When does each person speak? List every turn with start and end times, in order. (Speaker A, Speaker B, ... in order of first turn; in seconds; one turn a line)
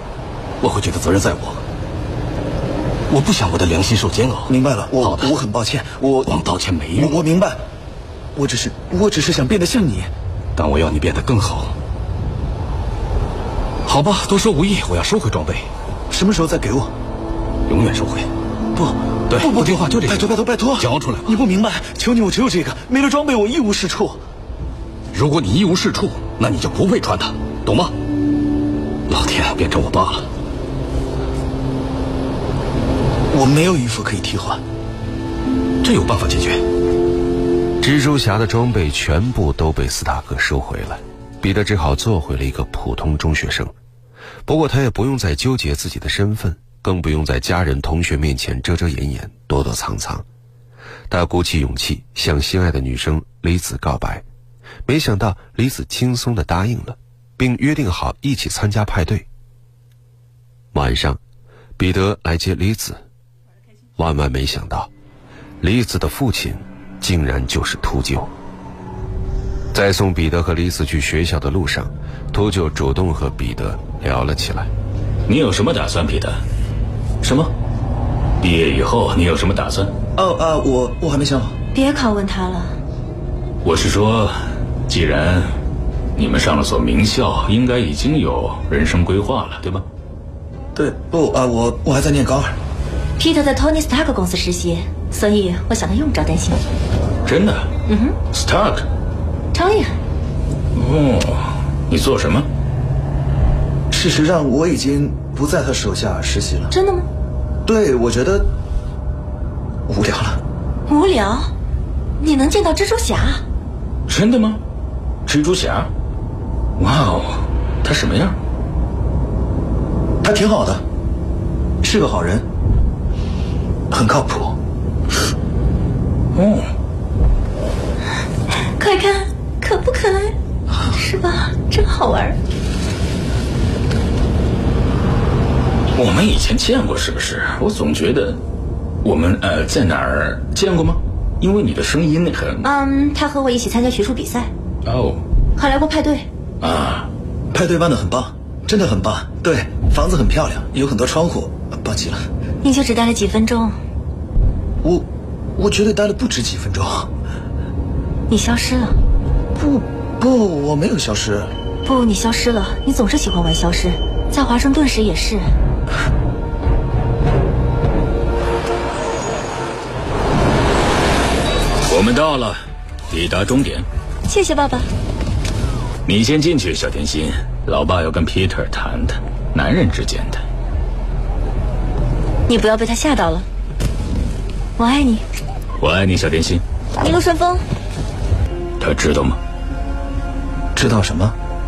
Speaker A: 0.6-1.6
Speaker A: 3.1-5.4
Speaker B: 4.5-6.3
Speaker A: 6.2-7.2
Speaker B: 7.0-7.6
Speaker B: 8.3-10.1
Speaker A: 10.6-11.8
Speaker A: 13.8-15.7
Speaker B: 16.1-16.9
Speaker A: 17.7-18.3
Speaker B: 18.7-24.2
Speaker A: 19.3-21.4
Speaker A: 25.1-27.9
Speaker A: 29.1-30.3
Speaker B: 33.3-34.6
Speaker A: 35.8-36.6
Speaker C: 37.8-43.7
Speaker C: 44.5-50.2
Speaker C: 51.1-54.2
Speaker C: 54.9-59.3
Speaker C: 60.7-61.2
Speaker C: 61.8-63.0
Speaker C: 64.0-64.9
Speaker C: 65.6-68.3
Speaker C: 69.7-74.7
Speaker D: 75.3-76.4
Speaker D: 77.2-77.5
Speaker D: 78.4-79.9
Speaker B: 80.2-81.5
Speaker E: 81.7-82.8
Speaker D: 83.6-84.3
Speaker D: 84.9-85.5
Speaker D: 86.2-89.8
Speaker B: 90.7-92.5
Speaker E: 93.2-96.6
Speaker D: 97.2-97.7
Speaker E: 97.9-98.2
Speaker D: 98.3-98.9
Speaker E: 99.5-100.0
Speaker D: 100.7-102.5
Speaker B: 103.9-106.7
Speaker E: 106.7-107.1
Speaker B: 107.6-108.5
Speaker B: 109.9-110.4
Speaker E: 110.9-111.5
Speaker E: 112.2-113.4
Speaker D: 114.1-114.6
Speaker D: 115.2-115.9
Speaker D: 116.8-118.4
Speaker B: 120.2-120.8
Speaker B: 121.8-122.5
Speaker B: 123.9-124.6
Speaker D: 126.3-126.7
Speaker E: 128.8-132.4
Speaker D: 135.9-138.4
Speaker D: 139.0-142.7
Speaker E: 142.6-144.5
Speaker D: 144.8-145.2
Speaker E: 145.6-146.3
Speaker D: 146.6-147.1
Speaker B: 147.5-152.2
Speaker E: 152.6-153.8
Speaker B: 154.8-157.1
Speaker E: 158.3-159.0
Speaker B: 159.6-161.5
Speaker E: 161.8-165.5
Speaker D: 171.9-173.8
Speaker E: 174.3-174.9
Speaker D: 176.1-180.4
Speaker E: 182.5-183.4
Speaker E: 184.8-185.2
Speaker D: 185.8-186.6
Speaker E: 187.0-187.6
Speaker D: 188.8-189.4
Speaker B: 190.7-191.3